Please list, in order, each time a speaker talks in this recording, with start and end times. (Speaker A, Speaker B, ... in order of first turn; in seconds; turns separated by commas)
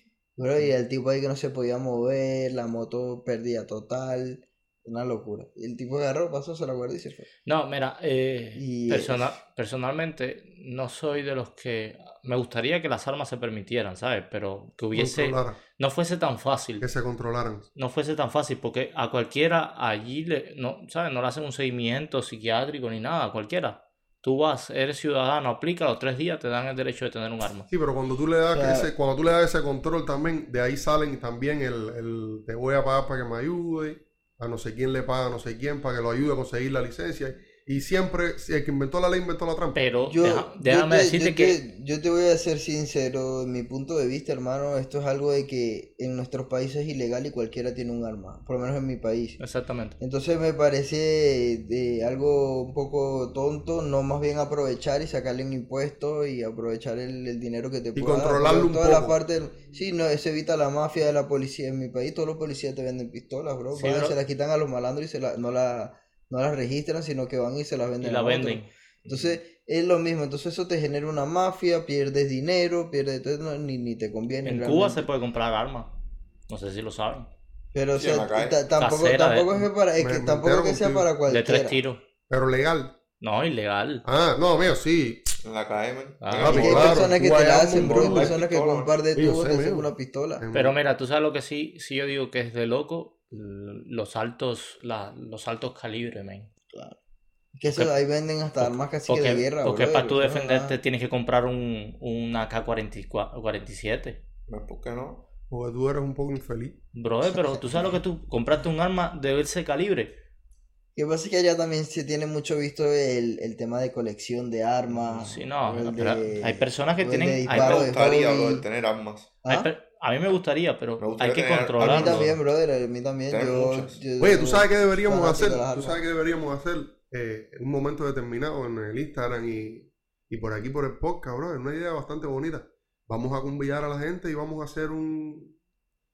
Speaker A: 0.4-7.3, Speaker B: 7.5-16.8, Speaker A: 8.6-9.3, Speaker C: 14.9-15.6, Speaker C: 16.8-17.6, Speaker B: 17.7-27.7, Speaker C: 27.7-39.8, Speaker A: 28.5-28.9, Speaker B: 39.7-41.6, Speaker A: 40.1-49.4, Speaker B: 49.4-50.0, Speaker A: 50.0-75.1, Speaker C: 58.0-59.1, Speaker B: 63.7-64.2, Speaker B: 68.0-68.7, Speaker D: 69.0-69.4, Speaker B: 74.4-75.9, Speaker B: 76.5-77.3, Speaker A: 77.7-81.8, Speaker D: 77.9-78.6, Speaker B: 78.8-79.6, Speaker C: 80.0-81.1, Speaker B: 81.3-82.0, Speaker C: 82.3-82.9, Speaker B: 83.2-84.0, Speaker C: 84.0-85.3, Speaker D: 85.4-87.1, Speaker B: 86.2-86.8, Speaker C: 86.4-88.4, Speaker A: 86.4-90.4, Speaker D: 87.7-88.9, Speaker C: 89.1-90.8, Speaker B: 90.5-96.5, Speaker A: 96.7-97.0, Speaker A: 97.5-100.8, Speaker B: 98.6-104.2, Speaker D: 104.5-105.2, Speaker C: 105.5-106.8, Speaker B: 106.9-110.1, Speaker A: 107.3-107.9, Speaker A: 110.9-118.6, Speaker B: 115.1-117.9, Speaker D: 117.5-119.3, Speaker A: 119.4-119.7, Speaker B: 119.5-122.3, Speaker D: 121.0-122.3, Speaker A: 121.8-126.0, Speaker D: 123.3-124.0, Speaker C: 124.2-135.5